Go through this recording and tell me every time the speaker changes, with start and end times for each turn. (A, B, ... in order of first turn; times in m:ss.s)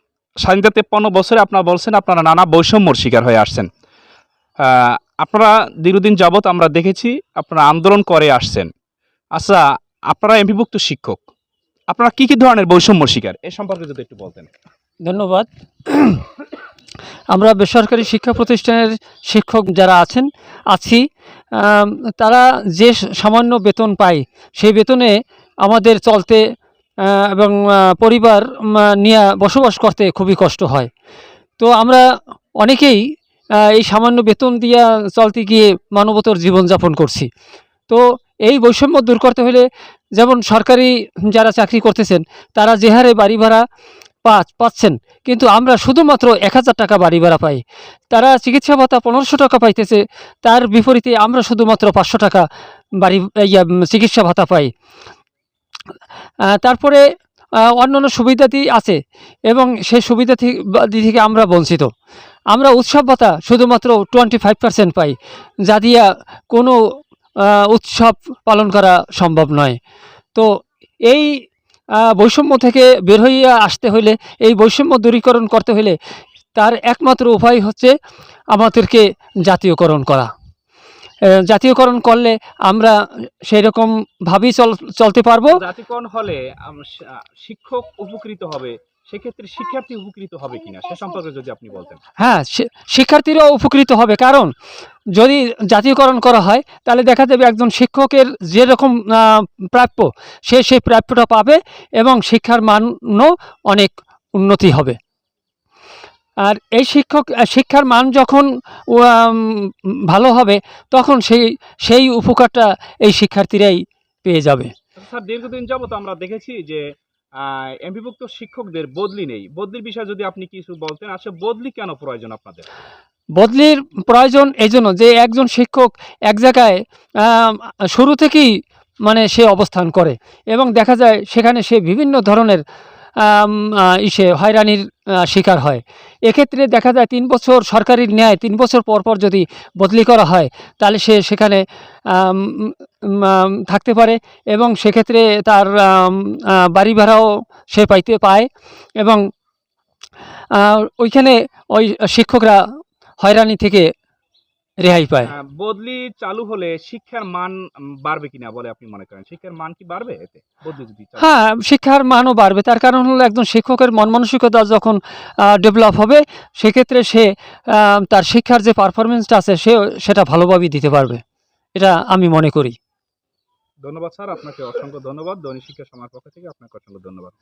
0:00.4-0:03.7 A
0:04.6-0:08.7 A
0:09.4-0:11.2 A
0:11.9-0:14.5 A
0:15.0-0:16.2 B
0:17.3-0:21.0 B
0:21.6-0:25.1 B
0:25.6-0:26.4 B
0:27.0-0:30.9 B
0:31.6-0:32.0 B
0:32.6-0:33.0 B
0:33.6-0:37.3 B
0:37.9-0:39.6 B
0:40.2-0:43.6 B
0:44.2-0:47.6 B
0:48.1-0:52.4 B
0:53.0-0:54.7 B
0:56.5-0:57.0 B
0:57.7-0:59.0 B
0:59.5-1:01.9 B
1:02.5-1:05.1 B
1:05.7-1:06.8 B
1:07.4-1:09.8 B
1:12.0-1:16.0 B
1:16.6-1:17.9 B
1:18.5-1:20.3 B
1:21.4-1:23.0 B
1:23.5-1:25.6 B
1:25.5-1:32.0 A
1:32.2-1:34.5 B
1:35.2-1:45.0 B
1:46.4-1:54.7 B
1:55.0-1:56.8 A
1:57.4-2:02.6 A
2:03.4-2:08.5 B
2:09.1-2:12.6 B
2:13.2-2:28.5 B
2:30.5-2:32.6 B
2:33.2-2:33.9 B
2:34.8-2:35.3 B
2:35.3-2:41.3 A
2:41.2-2:51.2 B
2:51.8-2:52.8 B
2:53.8-2:57.3 A